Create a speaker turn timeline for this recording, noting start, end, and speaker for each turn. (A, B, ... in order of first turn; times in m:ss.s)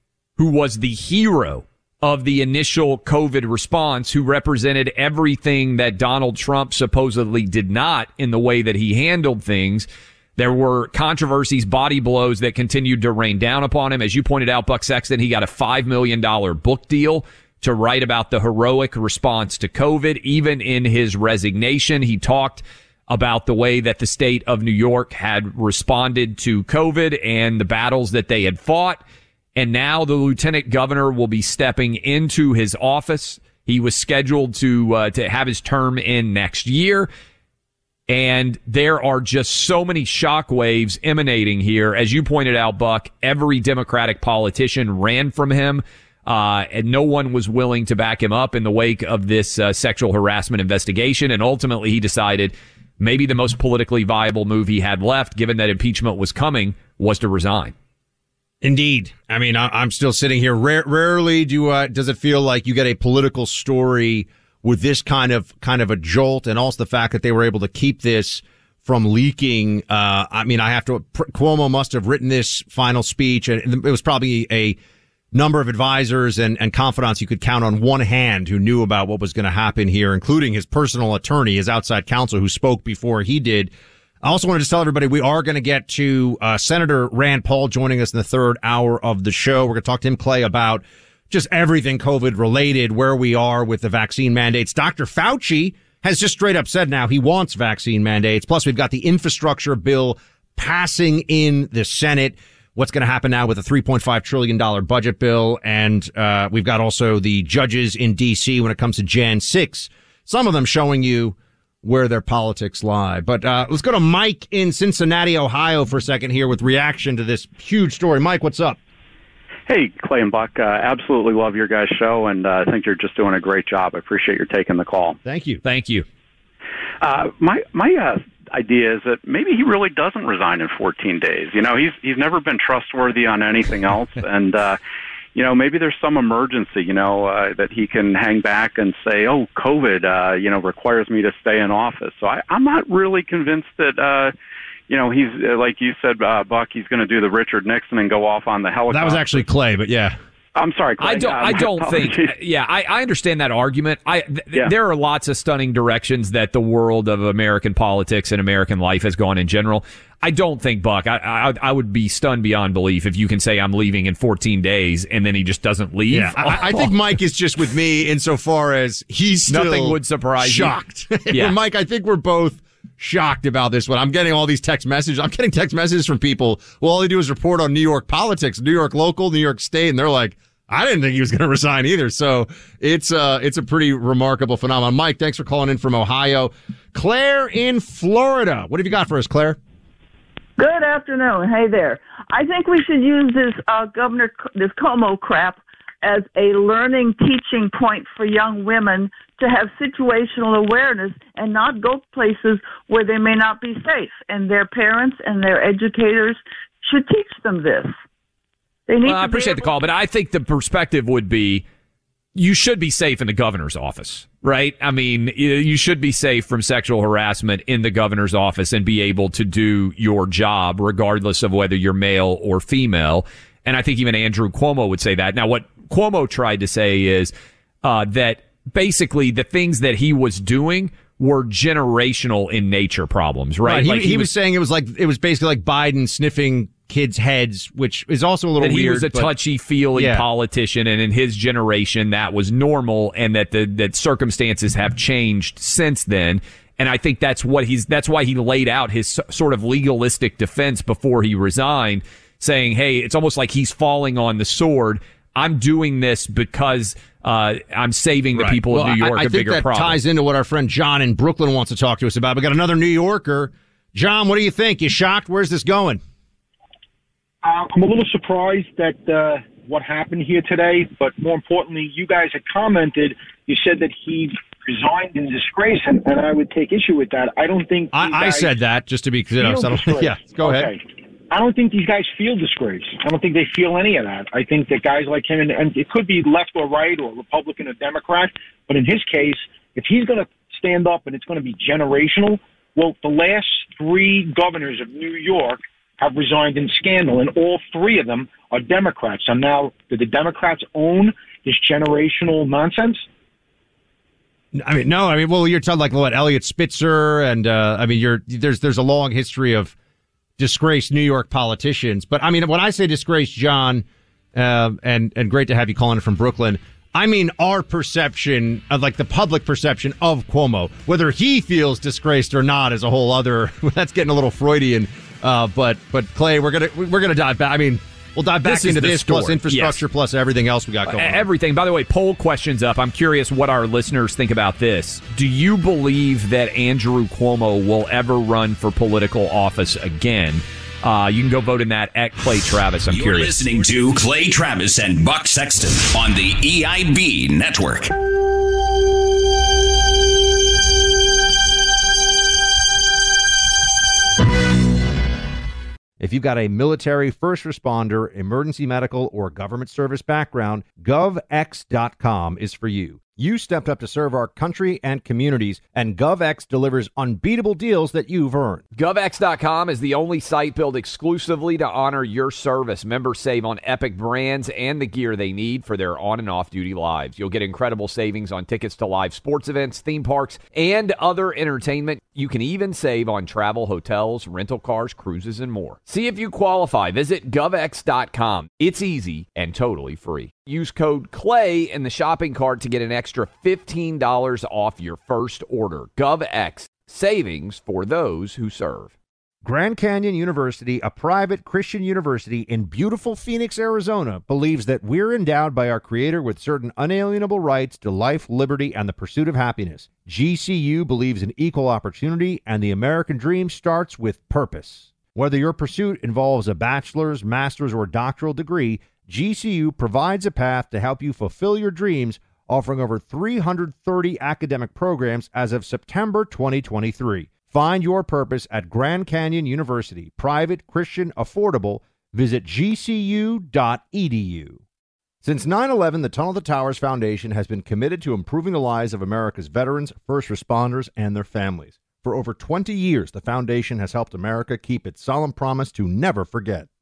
0:00.4-0:29.0 A
0:29.6-0:37.1 A
0:38.1-0:57.7 A
0:58.6-1:14.8 B
1:15.3-1:58.8 B
1:59.7-2:05.2 C
2:05.2-2:05.6 B
2:05.6-2:06.0 A
2:07.0-2:14.8 C
2:15.3-2:24.3 C
2:24.9-2:29.4 C
2:28.9-2:30.2 B
2:30.5-2:32.3 C
2:31.0-2:46.9 A
2:46.1-3:09.6 B
2:49.5-2:50.8 A
2:51.3-2:51.5 A
3:10.6-3:27.9 D
3:28.9-3:29.8 D
3:29.0-3:31.6 A
3:32.3-3:47.3 A
3:47.8-3:54.3 A
3:53.6-3:59.3 B
3:58.6-4:20.0 A
4:00.0-4:00.2 B
4:18.3-4:26.0 B
4:27.4-4:38.5 E
4:37.9-4:40.7 B
4:39.4-5:03.0 E
5:04.5-5:09.7 B
5:10.4-5:31.2 B
5:28.4-5:29.8 A
5:30.8-5:43.3 A
5:42.9-5:47.9 F
5:56.0-6:08.6 B
6:08.8-6:38.9 A
6:39.4-7:14.6 B
7:15.2-7:26.7 B